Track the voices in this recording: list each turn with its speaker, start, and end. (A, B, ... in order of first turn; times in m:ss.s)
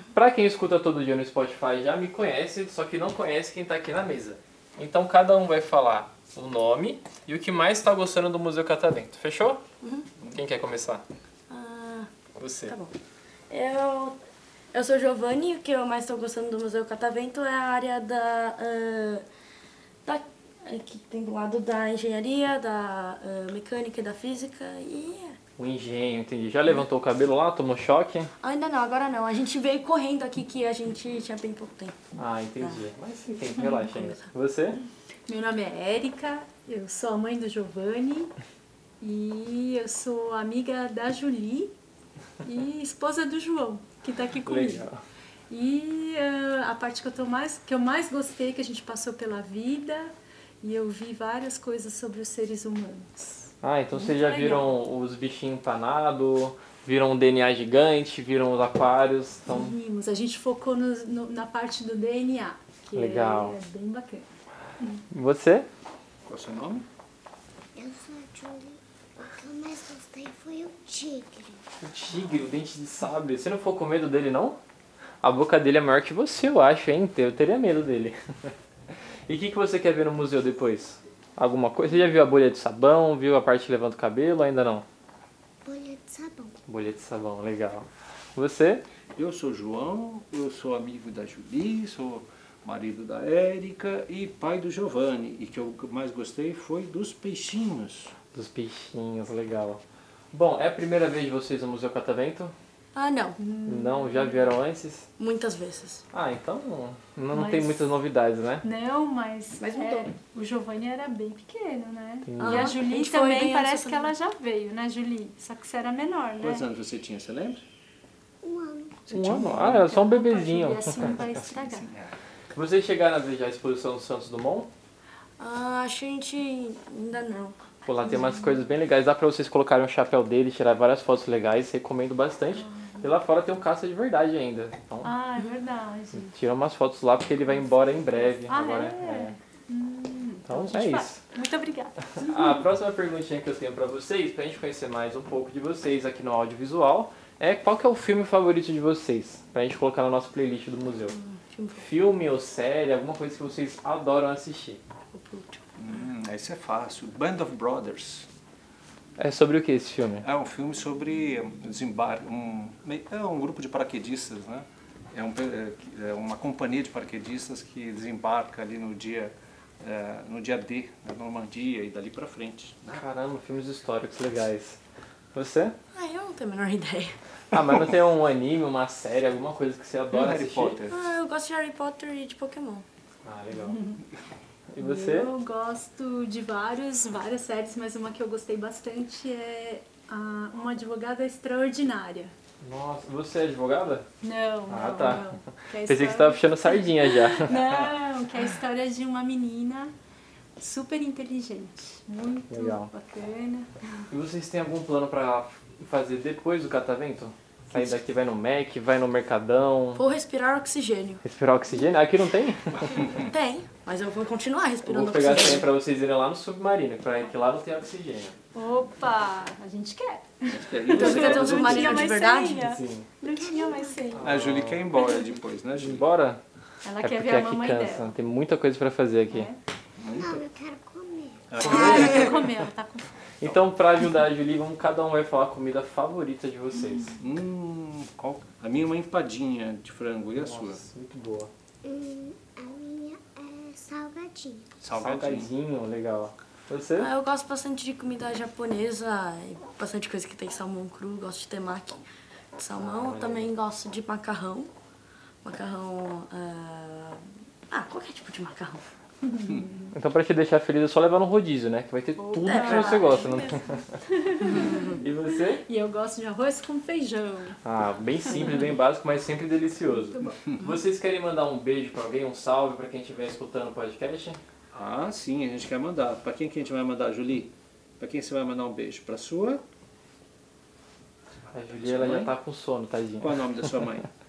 0:00.1-0:09.6 A
0:09.8-0:10.1 B
0:10.3-0:11.0 A
0:11.5-0:12.1 B
0:12.4-0:12.8 A
0:12.6-0:12.9 B
0:13.5-0:14.2 B
0:14.7-0:19.2 B
0:20.1-0:25.4 B
0:25.6-0:28.3 A
0:28.4-0:32.0 B
0:32.2-0:34.8 A
0:35.3-0:38.3 C
0:39.0-0:41.7 C
0:42.4-0:44.9 C
0:44.4-0:45.0 A
0:45.5-0:54.8 C
0:53.6-0:59.8 A
0:59.5-1:04.3 C
1:02.9-1:03.6 A
1:05.1-1:05.7 A
1:06.3-1:06.9 D
1:07.8-1:11.6 E
1:11.8-1:14.6 A
1:15.2-1:18.5 A
1:19.3-1:24.8 A
1:25.6-1:26.6 E
1:26.7-1:28.8 A
1:29.2-1:38.1 D
1:38.3-1:39.8 A
1:40.3-1:42.5 A
1:43.0-1:43.4 B
1:43.4-1:44.5 C
1:43.7-1:45.1 A
1:45.2-1:46.0 B
1:46.1-1:48.6 A
1:47.3-1:48.0 C
1:48.6-1:56.6 C
1:49.6-1:50.1 B
1:52.3-1:52.8 A
1:52.4-1:54.1 B
1:56.4-1:57.6 D
1:58.4-1:59.0 E
1:59.1-2:00.0 D
1:59.1-2:01.0 A
1:59.8-2:01.9 C
2:01.0-2:02.2 D
2:02.5-2:04.7 A
2:05.4-2:07.6 B
2:07.8-2:15.1 A
2:12.6-2:13.1 C
2:15.0-2:16.3 C
2:16.2-2:19.4 A
2:18.3-2:22.6 C
2:20.5-2:21.2 A
2:22.2-2:31.2 A
2:31.1-2:31.9 B
2:31.8-2:34.8 A
2:35.1-2:35.6 B
2:35.8-2:38.3 D
2:39.2-2:40.3 A
2:40.2-2:53.0 D
2:52.9-2:54.8 A
2:55.3-2:55.8 A
2:55.9-2:57.2 B
2:57.5-3:00.8 A
3:00.1-3:01.0 D
3:00.9-3:02.8 B
3:03.2-3:03.8 A
3:03.6-3:04.0 C
3:04.7-3:05.3 A
3:04.8-3:12.3 C
3:12.6-3:14.0 A
3:14.2-3:19.9 C
3:14.7-3:17.8 A
3:20.6-3:23.7 C
3:22.5-3:22.9 A
3:24.1-3:30.0 A
3:30.0-3:31.2 B
3:31.2-3:33.1 A
3:33.1-3:35.7 B
3:34.8-3:38.4 A
3:38.6-3:44.3 C
3:40.5-3:42.1 D
3:40.9-3:42.7 B
3:42.6-3:43.1 A
3:43.2-3:44.0 E
3:44.2-3:44.8 A
3:44.2-3:46.0 D
3:45.8-3:46.4 A
3:46.8-3:48.2 C
3:47.0-3:49.5 A
3:49.3-3:49.6 C
3:50.0-3:50.4 D
3:50.1-3:52.1 E
3:51.5-3:52.4 D
3:51.6-3:53.1 C
3:51.6-3:52.3 A
3:53.4-3:57.2 A
3:57.2-4:00.8 D
4:00.4-4:01.5 A
4:01.8-4:04.8 E
4:04.8-4:05.5 D
4:04.9-4:07.1 A
4:07.0-4:12.0 B
4:12.6-4:14.7 B
4:12.8-4:13.5 A
4:15.4-4:18.8 B
4:19.9-4:24.0 A
4:22.2-4:27.6 C
4:22.4-4:23.3 B
4:24.5-4:25.0 B
4:25.0-4:25.6 A
4:27.6-4:34.4 A
4:28.4-4:28.6 C
4:29.9-4:30.4 C
4:34.7-4:39.6 D
4:41.5-4:43.4 A
4:41.5-4:42.4 D
4:43.2-4:44.1 D